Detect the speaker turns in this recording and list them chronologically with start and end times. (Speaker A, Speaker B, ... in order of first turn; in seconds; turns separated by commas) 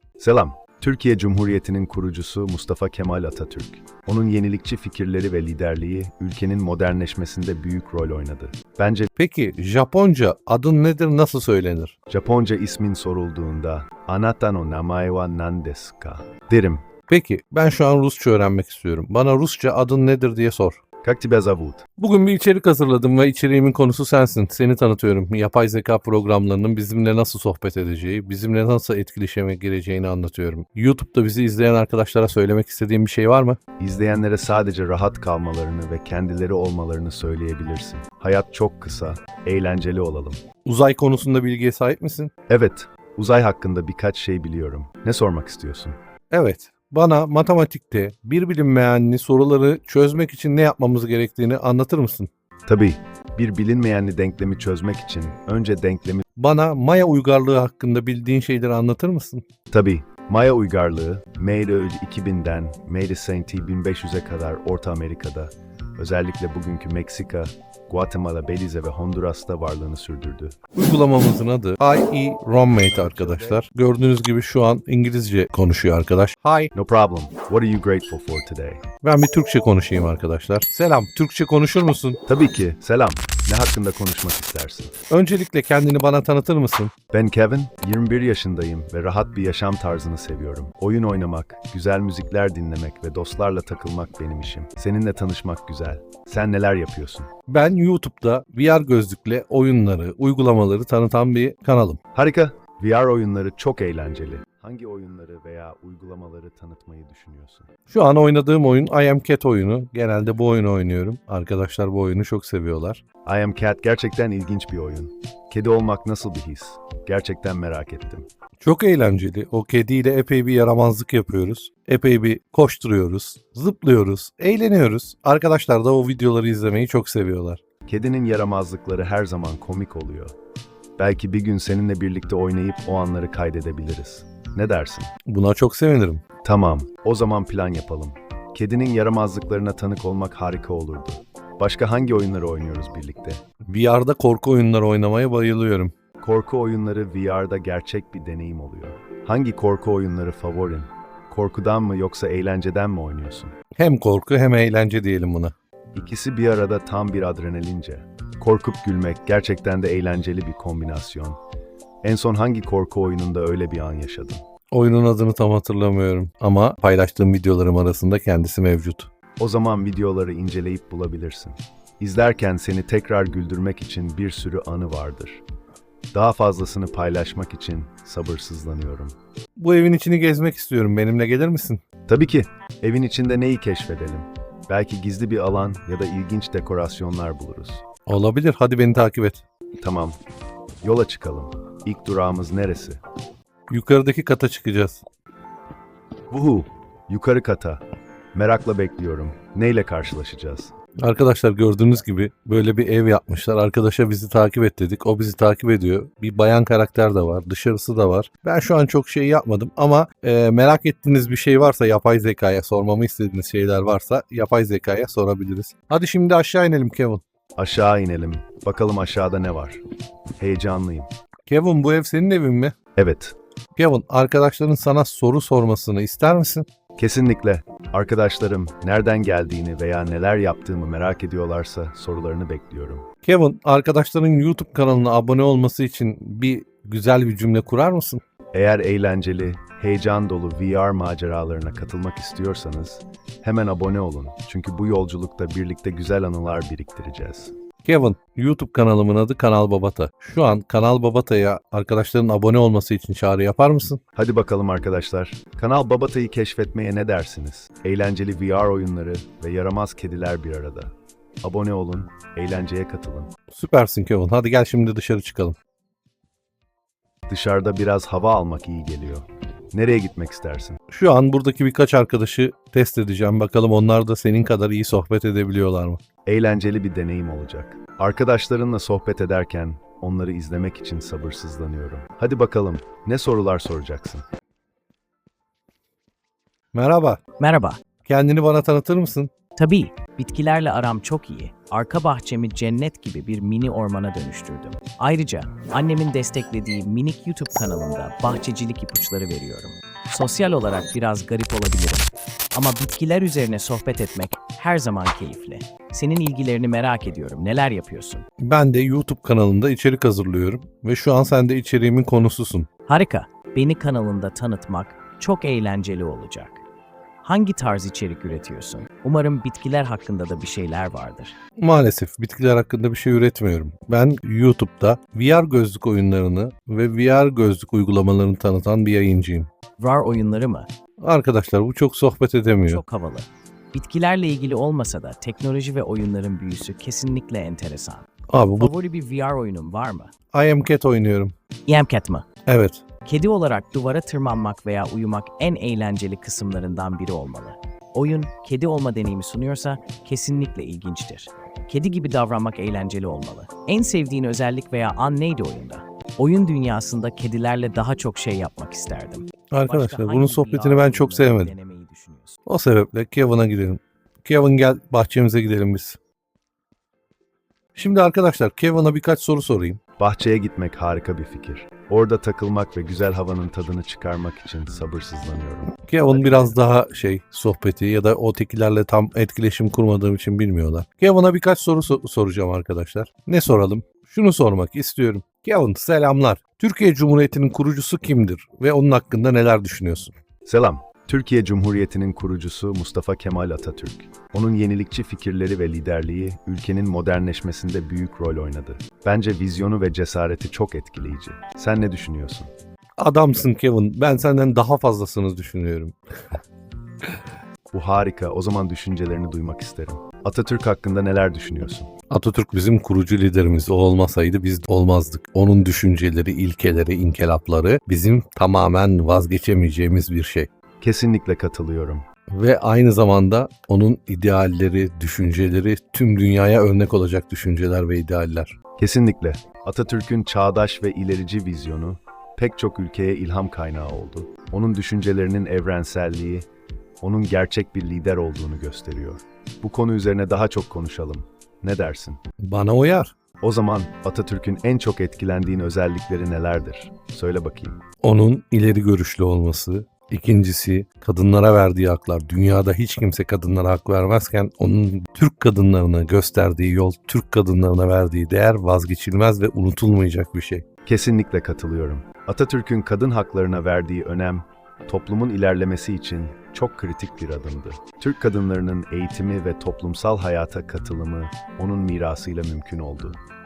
Speaker A: 0.2-9.1, Speaker B: 9.2-11.9, Speaker A: 12.1-16.8, Speaker B: 17.1-20.8, Speaker A: 21.0-21.8, Speaker B: 22.0-33.6, Speaker A: 33.8-40.4, Speaker B: 40.6-42.3, Speaker A: 42.5-46.0, Speaker B: 46.3-52.3, Speaker A: 52.7-56.2, Speaker B: 56.4-59.4, Speaker A: 59.7-70.6, Speaker B: 70.7-76.7, Speaker A: 72.8-73.6, Speaker A: 76.7-78.8, Speaker B: 79.0-82.2, Speaker A: 82.3-84.9, Speaker B: 85.1-86.9, Speaker A: 87.1-97.3, Speaker B: 97.5-102.0, Speaker A: 102.1-107.7, Speaker B: 107.9-113.0, Speaker A: 113.2-118.2, Speaker B: 118.6-127.6, Speaker A: 127.9-130.3, Speaker A: 131.0-135.1, Speaker B: 135.3-136.2, Speaker A: 136.4-143.4, Speaker B: 143.7-145.9, Speaker A: 146.2-153.5, Speaker B: 153.8-155.5, Speaker A: 155.9-161.4, Speaker A: 162.0-164.4, Speaker B: 164.7-169.1, Speaker A: 169.4-175.4, Speaker A: 176.1-179.1, Speaker B: 179.6-181.8, Speaker A: 182.1-187.8, Speaker B: 188.1-189.4, Speaker A: 189.8-190.2, Speaker A: 190.8-193.0, Speaker B: 193.7-195.0, Speaker A: 196.3-197.8, Speaker A: 198.3-200.7, Speaker B: 201.0-217.2, Speaker A: 217.6-219.8, Speaker A: 220.4-221.1, Speaker B: 221.5-222.7, Speaker A: 222.9-223.3, Speaker B: 223.8-226.7, Speaker A: 227.0-233.0, Speaker B: 233.2-238.2, Speaker A: 238.5-247.5, Speaker B: 247.8-254.0, Speaker A: 254.2-260.9, Speaker A: 261.4-263.3, Speaker B: 263.5-265.6, Speaker A: 267.3-270.8, Speaker B: 270.9-276.0, Speaker A: 276.2-284.2, Speaker B: 286.7-287.2, Speaker C: 287.4-287.8, Speaker B: 288.0-289.3, Speaker C: 289.6-308.2, Speaker B: 308.4-312.7, Speaker C: 312.9-316.6, Speaker C: 317.2-321.3, Speaker B: 321.6-329.5, Speaker C: 329.8-330.7, Speaker B: 331.0-332.8, Speaker C: 332.6-340.1, Speaker B: 338.3-338.7, Speaker B: 340.3-341.3, Speaker C: 341.7-342.2, Speaker B: 342.4-342.8, Speaker C: 343.0-362.4, Speaker B: 359.5-361.5, Speaker B: 362.4-366.0, Speaker B: 367.7-369.8, Speaker A: 370.0-376.6, Speaker B: 375.8-390.1, Speaker A: 390.4-402.5, Speaker B: 403.0-405.9, Speaker A: 407.7-411.9, Speaker B: 412.1-420.5, Speaker A: 420.8-422.0, Speaker B: 422.3-428.5, Speaker A: 428.8-436.5, Speaker A: 437.0-442.2, Speaker B: 442.4-443.1, Speaker A: 443.4-447.8, Speaker B: 448.0-460.6, Speaker A: 460.8-473.2